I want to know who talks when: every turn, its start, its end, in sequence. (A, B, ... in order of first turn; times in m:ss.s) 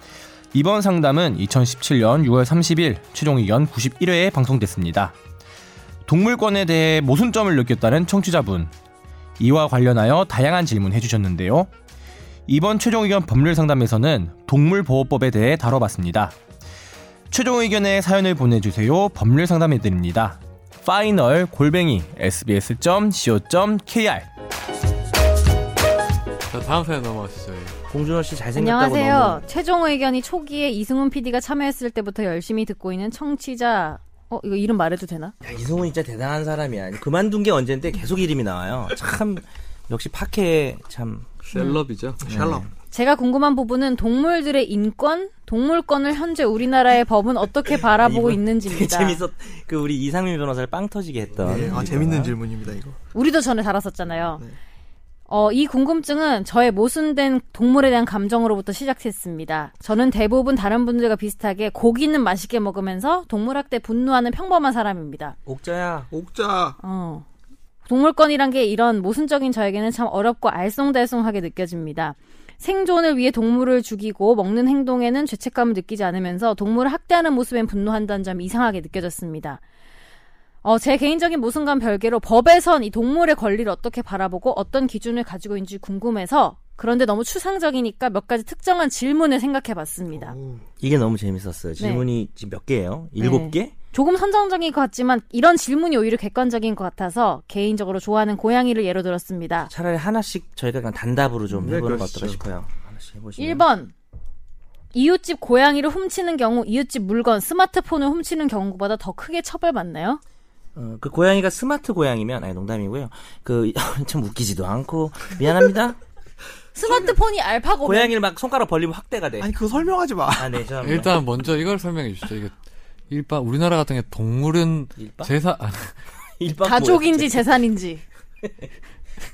0:00.5-0:05.1 A
0:06.1-0:08.7 A
0:09.4-0:11.7 A
0:12.5-0:16.4 A
0:17.3-0:24.3 A
0:26.5-0:27.8 B
0:27.9-0:29.4 C
0:28.6-0:35.4 D
0:35.4-0:41.3 C
0:41.4-0:42.4 B
0:41.5-0:41.8 D
0:42.2-0:42.7 E
0:42.3-0:42.7 C
0:42.9-0:49.2 D
0:47.8-0:52.4 C
0:51.4-0:53.0 E
0:53.1-0:54.5 D
0:55.3-1:05.4 D
1:05.5-1:06.1 C
1:06.1-1:06.8 E
1:06.8-1:07.3 D
1:07.8-1:19.6 D
1:20.6-1:30.4 D
1:30.1-1:30.7 E
1:30.8-1:33.7 C
1:31.8-1:32.1 D
1:33.2-1:39.7 D
1:39.7-1:43.6 C
1:41.5-1:42.4 B
1:43.4-1:43.9 D
1:44.9-1:50.2 D
1:50.8-1:56.0 C
1:56.8-1:58.2 D
1:57.8-1:59.5 C
1:59.4-2:00.7 E
2:00.4-2:01.2 C
2:00.8-2:02.6 B
2:03.1-2:06.0 B
2:05.0-2:05.3 C
2:06.2-2:07.5 C
2:06.6-2:08.0 D